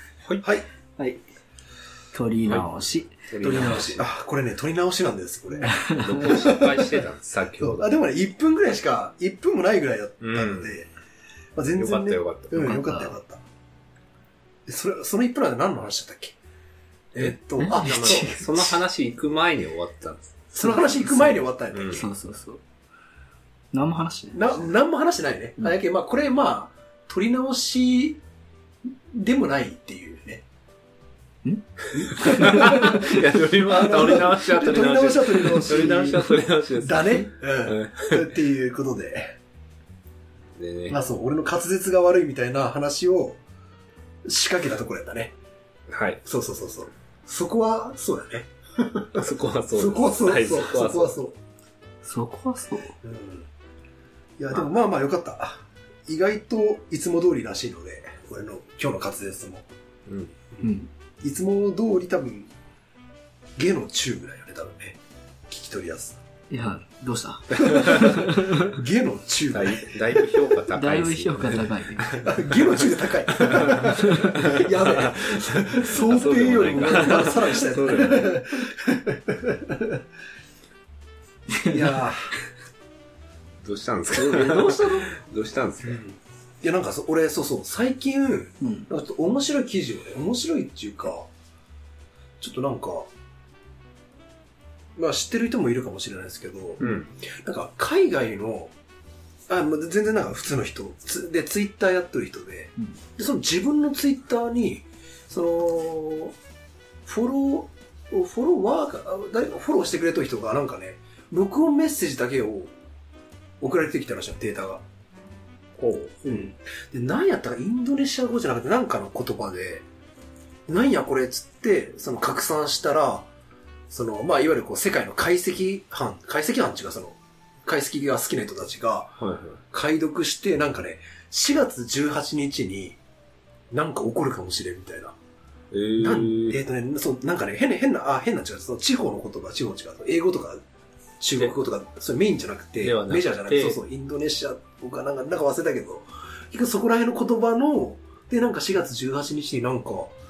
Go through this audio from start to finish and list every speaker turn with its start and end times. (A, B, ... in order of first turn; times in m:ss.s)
0:02.1-0:03.8 A
0:02.4-0:04.1 B
0:03.4-0:06.9 C
0:05.6-0:06.5 A
0:06.0-0:07.9 B
0:07.6-0:10.9 C
0:10.2-0:10.8 B
0:11.6-0:13.4 C
0:11.8-0:12.9 B
0:12.5-0:13.2 A
0:14.7-0:16.4 C
0:17.1-0:18.4 C
0:17.2-0:20.5 B
0:17.6-0:18.8 A
0:20.6-0:22.1 C
0:20.6-0:22.6 A
0:21.7-0:22.1 B
0:23.7-0:24.4 A
0:24.3-0:28.2 C
0:29.1-0:30.4 C
0:31.4-0:33.2 A
0:32.0-0:39.4 C
0:32.2-0:38.3 B
0:40.6-0:41.0 B
0:40.9-0:43.4 C
0:44.2-0:45.4 C
0:45.9-0:46.2 B
0:46.2-0:51.4 C
0:49.1-0:51.2 B
0:52.0-0:53.0 A
0:53.0-0:53.5 C
0:54.4-0:59.7 C
1:00.1-1:00.3 B
1:00.6-1:00.9 A
1:01.2-1:02.5 C
1:03.6-1:06.2 C
1:06.5-1:08.8 A
1:07.7-1:10.0 C
1:09.5-1:12.8 B
1:10.4-1:12.3 A
1:12.1-1:20.0 C
1:13.3-1:18.4 B
1:14.0-1:14.4 A
1:21.5-1:21.9 A
1:21.6-1:22.4 C
1:23.6-1:26.0 B
1:24.1-1:25.1 A
1:25.8-1:31.3 C
1:28.6-1:28.9 A
1:32.4-1:33.1 C
1:35.0-1:38.7 C
1:36.8-1:37.1 B
1:39.5-1:46.4 C
1:47.0-1:52.7 C
1:53.6-1:54.8 C
1:55.8-1:56.4 B
1:56.2-1:59.9 C
2:00.7-2:03.3 C
2:03.9-2:09.2 C
2:09.2-2:09.6 B
2:09.7-2:13.0 C
2:13.7-2:15.2 C
2:15.7-2:16.6 B
2:16.0-2:20.6 C
2:21.2-2:30.1 C
2:22.8-2:23.8 B